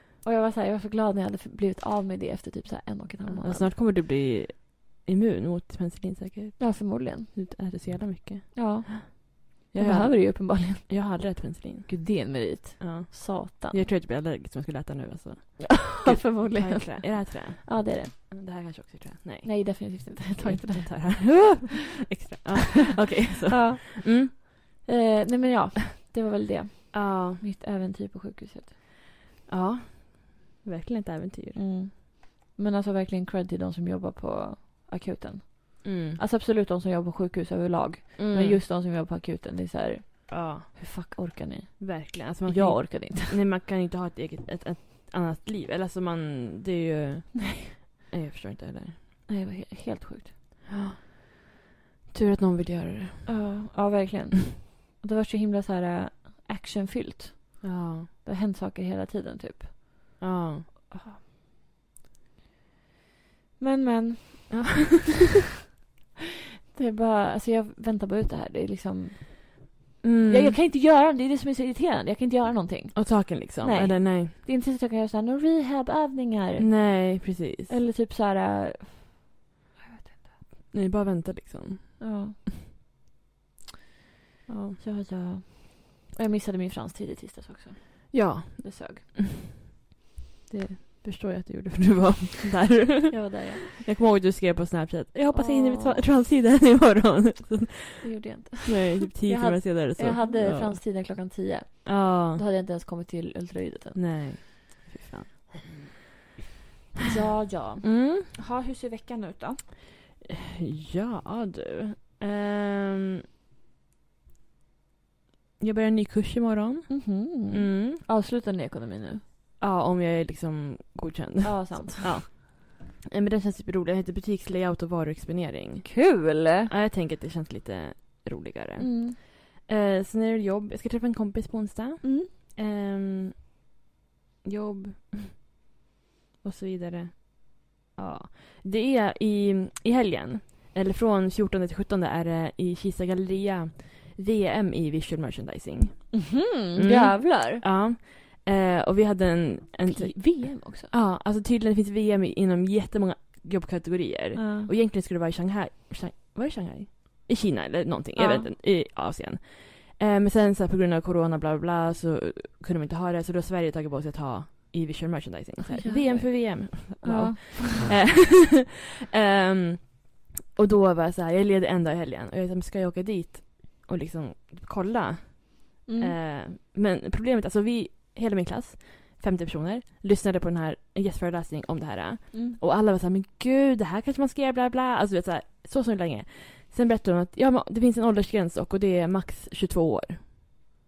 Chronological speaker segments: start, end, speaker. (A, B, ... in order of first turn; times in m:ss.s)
0:00.2-0:03.7 A
0:03.2-0:09.1 B
0:06.6-0:07.4 A
0:08.6-0:11.3 A
0:09.7-0:24.3 B
0:11.9-0:13.8 A
0:15.8-0:18.1 A
0:19.4-0:21.7 A
0:23.5-0:28.7 A
0:26.9-0:27.4 B
0:29.5-0:31.7 B
0:31.6-0:43.4 A
0:35.8-0:36.2 B
0:38.2-0:38.6 B
0:40.3-0:40.8 B
0:41.8-0:49.0 B
0:49.3-0:50.3 A
0:50.7-0:51.4 B
0:52.1-0:53.4 B
0:53.3-1:00.2 A
0:57.6-0:58.1 B
1:00.2-1:00.7 B
1:00.9-1:01.2 A
1:03.6-1:04.8 A
1:04.5-1:05.2 B
1:06.7-1:19.3 A
1:10.0-1:10.6 B
1:13.0-1:14.4 B
1:16.6-1:17.7 B
1:19.8-1:20.4 A
1:20.7-1:22.4 B
1:22.0-1:22.4 A
1:24.5-1:24.8 B
1:24.8-1:29.0 A
1:28.1-1:29.1 B
1:30.5-1:40.9 B
1:33.1-1:33.7 A
1:35.3-1:36.1 A
1:38.0-1:44.1 A
1:41.8-1:42.4 B
1:44.0-1:45.8 B
1:47.0-1:49.6 A
1:47.8-1:48.3 B
1:50.2-1:53.2 B
1:55.6-1:58.0 B
1:56.9-1:59.2 A
1:59.6-2:06.1 B
2:01.4-2:02.2 A
2:05.8-2:06.7 A
2:06.7-2:13.5 B
2:08.8-2:09.2 A
2:12.0-2:12.3 A
2:14.4-2:15.4 B
2:16.4-3:10.2 B
2:26.1-2:27.6 A
2:29.8-2:30.9 A
2:34.4-2:34.7 A
2:38.2-2:38.5 A
2:45.7-2:47.9 A
2:55.9-2:56.2 A
3:02.3-3:02.6 A